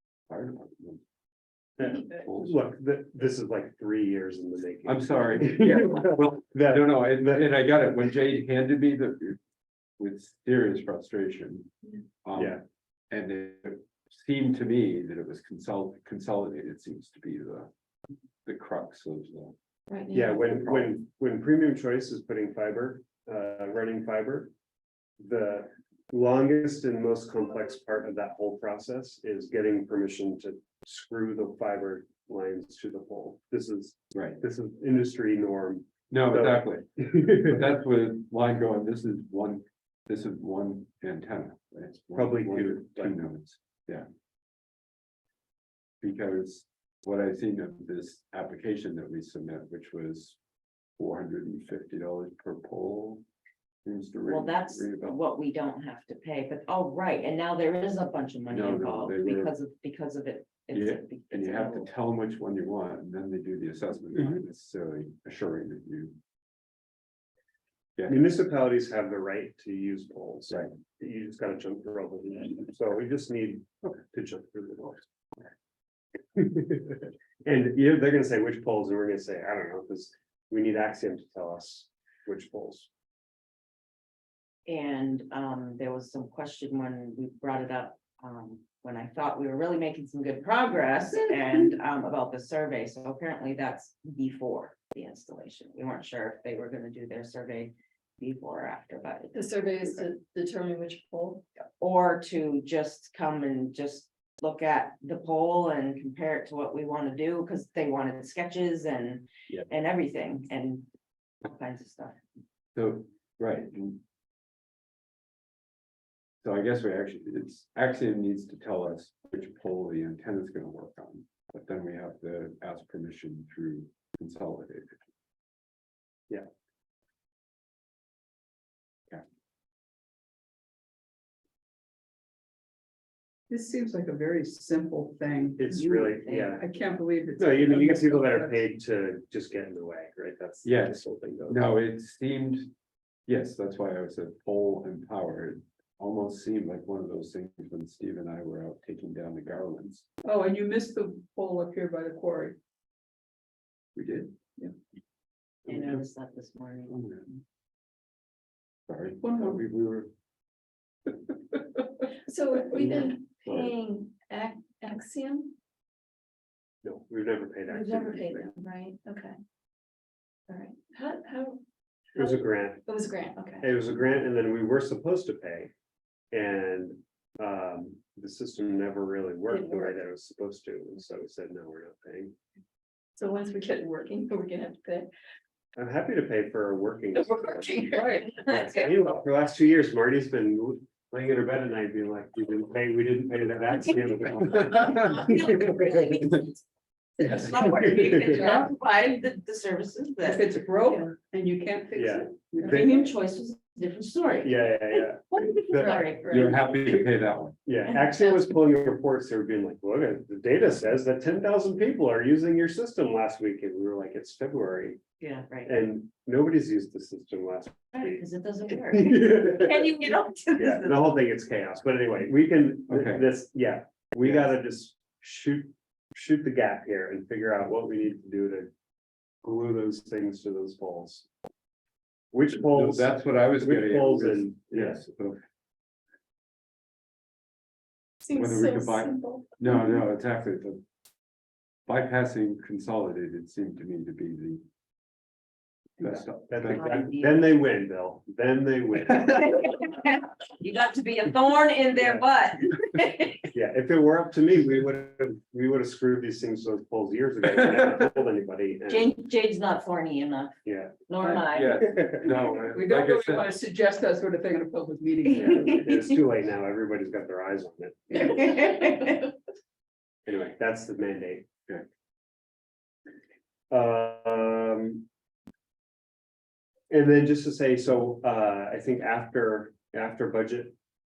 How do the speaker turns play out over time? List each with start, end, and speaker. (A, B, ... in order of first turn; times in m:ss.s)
0:00.3-0:01.0 A
0:01.8-0:07.4 B
0:02.0-0:02.6 A
0:04.8-0:09.4 A
0:10.0-0:11.7 A
0:12.2-0:12.6 A
0:12.3-0:12.6 B
0:13.1-0:17.7 A
0:18.4-0:19.5 A
0:19.9-0:20.5 C
0:20.1-0:24.5 B
0:25.2-0:37.6 B
0:34.1-0:34.4 A
0:36.1-0:44.1 A
0:42.1-0:43.2 B
0:46.0-0:50.4 A
0:51.0-0:53.2 A
0:53.8-0:55.2 A
0:54.3-1:01.9 D
0:58.5-0:59.5 A
1:00.7-1:06.2 A
1:04.1-1:04.4 B
1:08.0-1:08.3 A
1:08.1-1:15.1 B
1:16.3-1:22.9 B
1:24.7-1:39.4 D
1:39.3-1:41.4 C
1:41.8-1:50.9 D
1:51.4-1:52.2 D
1:52.8-1:54.0 A
1:56.4-2:05.0 A
2:13.5-2:15.6 E
2:15.6-2:16.6 B
2:15.7-2:16.6 D
2:16.6-2:18.6 E
2:17.4-2:21.7 B
2:20.6-2:21.0 A
2:21.5-2:22.7 A
2:23.3-2:30.1 A
2:30.2-2:32.6 E
2:33.9-2:34.4 A
2:35.7-2:36.0 A
2:35.7-2:37.1 D
2:36.9-2:37.3 A
2:38.9-2:40.1 A
2:39.2-2:39.6 E
2:42.3-2:45.5 C
2:42.7-2:43.7 A
2:46.8-2:48.5 B
2:47.7-2:49.3 C
2:50.5-2:51.6 C
2:52.1-2:52.8 B
2:52.1-2:53.6 C
2:53.6-2:55.7 B
2:56.3-3:02.3 B
2:59.5-2:59.9 C
3:03.2-3:05.1 C
3:05.8-3:07.5 B
3:07.2-3:08.9 D
3:08.0-3:08.2 E
3:08.4-3:15.7 B
3:14.7-3:16.6 D
3:17.2-3:20.5 D
3:17.6-3:18.4 B
3:18.3-3:18.7 E
3:20.2-3:22.9 E
3:21.9-3:23.0 B
3:22.6-3:26.6 D
3:24.4-3:26.9 B
3:25.8-3:26.5 E
3:26.3-3:27.6 A
3:27.6-3:35.0 B
3:35.2-3:35.7 D
3:35.6-3:38.2 B
3:38.0-3:41.2 D
3:38.9-3:39.9 B
3:40.6-3:48.7 B
3:42.9-3:43.2 A
3:44.2-3:44.5 A
3:49.4-3:51.3 B
3:52.3-3:55.0 B
3:52.6-3:55.4 A
3:58.2-3:59.5 C
3:58.3-4:00.8 A
4:01.9-4:04.6 A
4:06.0-4:07.0 A
4:06.0-4:09.5 B
4:06.6-4:07.5 D
4:09.2-4:13.5 D
4:12.0-4:12.2 B
4:13.5-4:19.1 B
4:18.9-4:20.5 D
4:20.6-4:21.0 B
4:21.1-4:21.8 D
4:21.4-4:23.5 A
4:21.8-4:22.4 B
4:22.4-4:25.9 E
4:25.2-4:25.8 D
4:25.4-4:28.3 B
4:28.1-4:29.0 E
4:28.2-4:29.3 D
4:30.2-4:31.5 B
4:33.7-4:35.0 B
4:36.9-4:40.7 B